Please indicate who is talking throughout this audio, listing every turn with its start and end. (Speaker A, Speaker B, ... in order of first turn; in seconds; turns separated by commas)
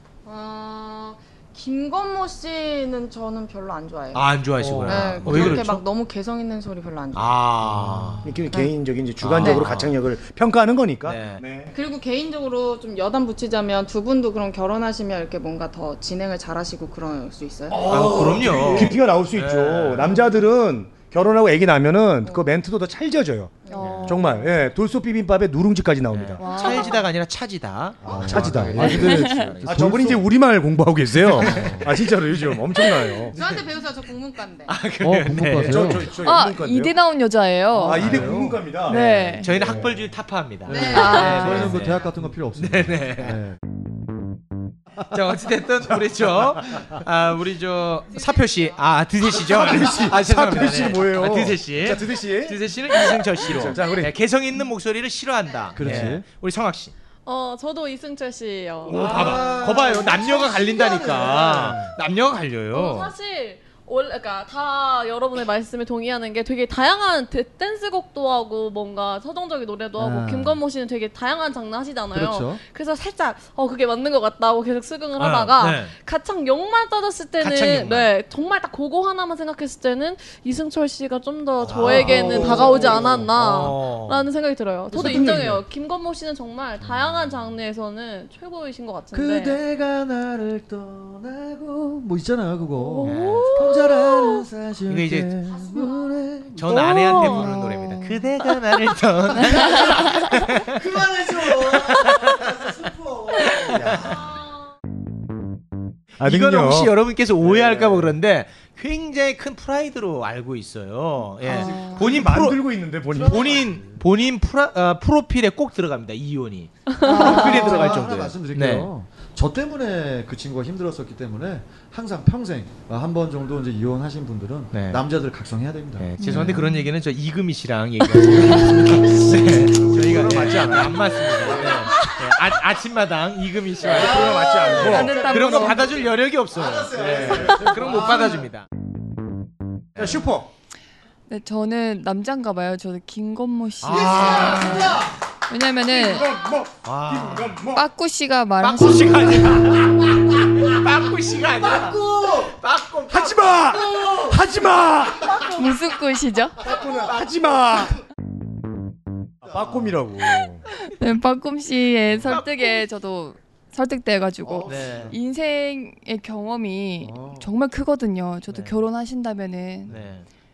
Speaker A: 0.2-4.3, Speaker B: 4.1-5.8, Speaker C: 4.6-5.6, Speaker A: 4.9-7.3, Speaker B: 7.1-8.3, Speaker C: 7.7-8.3, Speaker D: 8.2-11.7, Speaker B: 9.2-9.9, Speaker B: 11.1-11.4, Speaker A: 11.7-18.0, Speaker C: 17.7-18.9, Speaker D: 17.8-26.4, Speaker B: 17.9-20.2, Speaker A: 22.2-22.5, Speaker A: 23.7-24.0, Speaker E: 23.7-24.5, Speaker B: 23.8-24.2, Speaker B: 26.1-30.1, Speaker E: 26.4-27.0, Speaker D: 28.0-29.1, Speaker C: 28.1-30.3, Speaker E: 28.8-29.6, Speaker D: 29.6-33.4, Speaker C: 31.3-31.9, Speaker B: 31.3-31.8, Speaker A: 33.3-34.8, Speaker B: 33.3-33.6, Speaker B: 34.7-36.1, Speaker C: 35.0-36.0, Speaker D: 35.5-36.9, Speaker E: 36.2-38.0, Speaker D: 37.8-40.1, Speaker C: 37.8-38.6, Speaker B: 38.0-38.3, Speaker E: 38.9-39.5, Speaker B: 39.4-43.4, Speaker A: 40.7-41.6, Speaker C: 40.7-43.6, Speaker E: 40.9-41.7, Speaker B: 45.1-56.9, Speaker A: 48.1-48.8, Speaker C: 49.5-50.0, Speaker D: 49.5-52.7, Speaker D: 53.2-54.1, Speaker C: 55.8-56.2, Speaker D: 55.8-56.1, Speaker F: 57.2-59.5, Speaker B: 58.9-63.1, Speaker C: 58.9-62.0, Speaker F: 62.7-89.6, Speaker C: 70.0-70.6, Speaker C: 72.1-72.6, Speaker B: 75.2-75.9, Speaker B: 77.4-78.1, Speaker C: 81.7-83.1, Speaker B: 81.7-84.3, Speaker D: 81.7-83.3, Speaker D: 84.9-85.6, Speaker C: 86.8-87.5, Speaker C: 89.1-97.5, Speaker F: 92.8-94.4, Speaker B: 93.0-93.5, Speaker B: 94.9-95.4, Speaker A: 95.5-96.2, Speaker B: 96.5-100.8, Speaker F: 96.7-97.6, Speaker E: 97.4-98.1, Speaker C: 99.3-104.0, Speaker B: 101.4-102.3, Speaker B: 103.6-104.0, Speaker D: 103.8-104.2, Speaker A: 104.1-104.6, Speaker D: 106.2-108.2, Speaker B: 106.2-112.6, Speaker C: 111.4-112.5, Speaker E: 111.5-112.0, Speaker D: 111.9-113.7, Speaker C: 113.1-114.0, Speaker B: 113.2-118.9, Speaker F: 116.9-117.2, Speaker E: 117.0-117.9, Speaker C: 117.0-126.1, Speaker B: 124.7-125.0, Speaker B: 126.0-138.7, Speaker E: 126.2-126.9, Speaker E: 128.2-128.5, Speaker C: 128.2-129.8, Speaker D: 129.7-131.8, Speaker C: 131.4-132.1, Speaker C: 133.8-138.5, Speaker D: 133.9-135.8, Speaker E: 134.7-135.8, Speaker D: 137.0-137.9, Speaker D: 140.0-140.5, Speaker E: 141.3-146.3, Speaker B: 143.8-145.0, Speaker C: 143.8-145.2, Speaker D: 145.8-147.9, Speaker B: 146.8-147.6, Speaker E: 147.7-149.7, Speaker B: 148.6-154.0, Speaker C: 148.9-149.5, Speaker C: 151.5-152.6, Speaker D: 153.1-155.5, Speaker C: 153.7-154.4, Speaker E: 155.6-156.6, Speaker D: 156.6-158.0, Speaker B: 157.1-157.9, Speaker D: 159.4-160.6, Speaker C: 159.5-159.9, Speaker E: 160.8-169.9, Speaker B: 162.3-162.8, Speaker C: 164.4-165.2, Speaker B: 164.7-165.2, Speaker C: 167.0-167.5, Speaker B: 168.5-168.8, Speaker B: 169.9-170.3